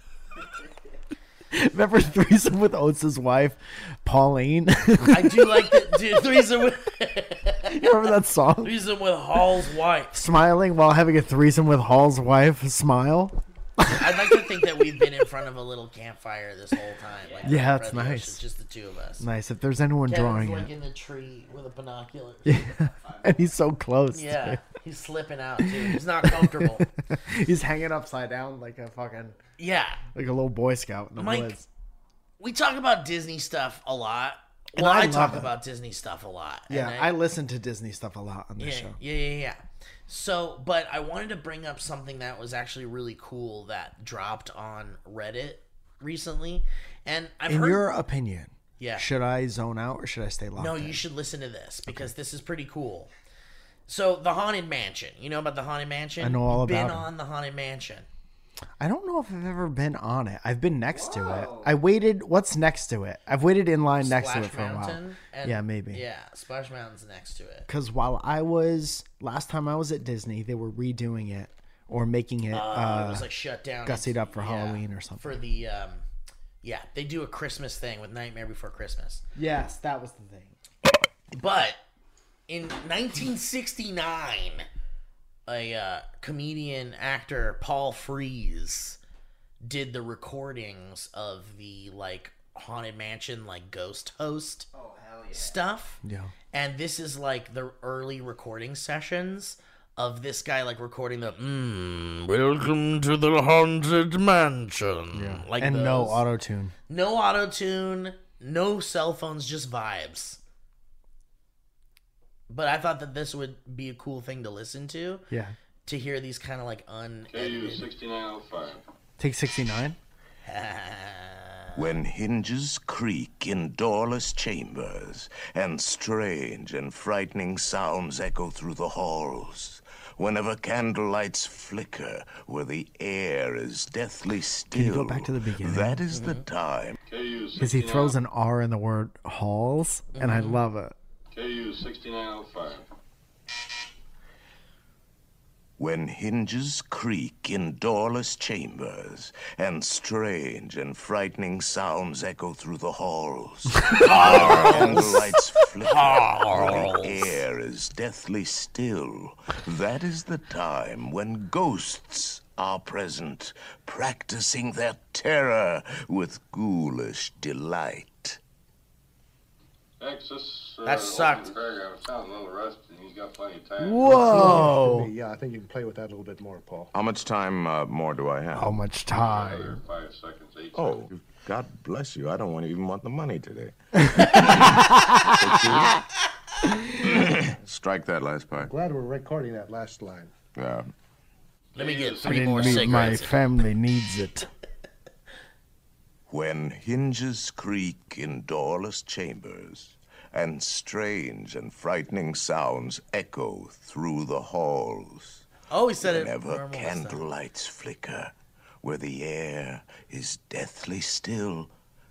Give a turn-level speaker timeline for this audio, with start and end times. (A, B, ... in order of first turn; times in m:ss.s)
0:01.5-0:06.0 A
0:05.1-0:07.8 B
0:07.7-0:08.8 A
0:08.6-0:10.2 B
0:10.1-0:14.5 A
0:13.9-0:19.2 B
0:17.2-0:17.6 C
0:17.4-0:18.4 A
0:19.2-0:20.7 A
0:20.1-0:22.6 B
0:22.4-0:24.6 A
0:22.8-0:23.5 C
0:24.1-0:26.9 B
0:25.6-0:29.4 A
0:29.6-0:30.0 B
0:30.2-0:31.7 A
0:31.2-0:31.6 B
0:32.4-0:37.1 B
0:34.8-0:35.5 A
0:36.7-0:39.0 A
0:38.6-0:47.9 B
0:47.5-0:51.0 A
0:48.8-0:49.1 B
0:50.6-0:53.1 B
0:51.9-0:52.1 A
0:53.9-0:58.1 B
0:56.2-0:57.1 A
0:58.8-1:06.0 A
1:00.9-1:01.8 C
1:04.0-1:07.7 B
1:07.7-1:13.3 A
1:12.5-1:16.0 B
1:13.8-1:15.4 A
1:16.6-1:19.2 B
1:19.4-1:20.6 A
1:21.3-1:21.8 B
1:22.5-1:24.7 B
1:25.5-1:29.0 B
1:29.6-1:34.7 B
1:34.7-1:35.6 C
1:35.3-1:36.0 B
1:36.0-1:36.3 A
1:36.5-1:46.2 B
1:45.1-1:46.7 A
1:46.9-1:50.4 B
1:52.5-1:55.2 B
1:55.3-1:55.6 A
1:55.9-1:57.9 B
1:57.3-1:58.8 D
1:59.2-2:00.0 A
2:00.4-2:01.8 B
2:01.8-2:17.0 E
2:14.7-2:16.0 A
2:16.1-2:16.4 B
2:17.1-2:18.2 D
2:17.6-2:21.0 A
2:20.2-2:20.6 B
2:21.3-2:22.8 D
2:25.8-2:48.4 E
2:33.9-2:35.2 A
2:34.0-2:35.1 B
2:35.8-2:37.4 B
2:50.0-2:54.6 D
2:50.8-2:51.6 B
2:53.8-2:55.1 A
2:54.0-2:56.9 F
2:56.9-2:58.8 E
2:58.5-2:59.8 A
2:59.1-3:01.1 D
3:00.8-3:06.0 E
3:04.0-3:05.8 A
3:06.9-3:08.7 E
3:08.6-3:10.3 F
3:10.6-3:10.9 E
3:11.8-3:13.3 D
3:11.8-3:13.4 B
3:12.2-3:14.5 A
3:16.3-3:25.5 E
3:25.7-3:27.2 B
3:26.0-3:31.7 E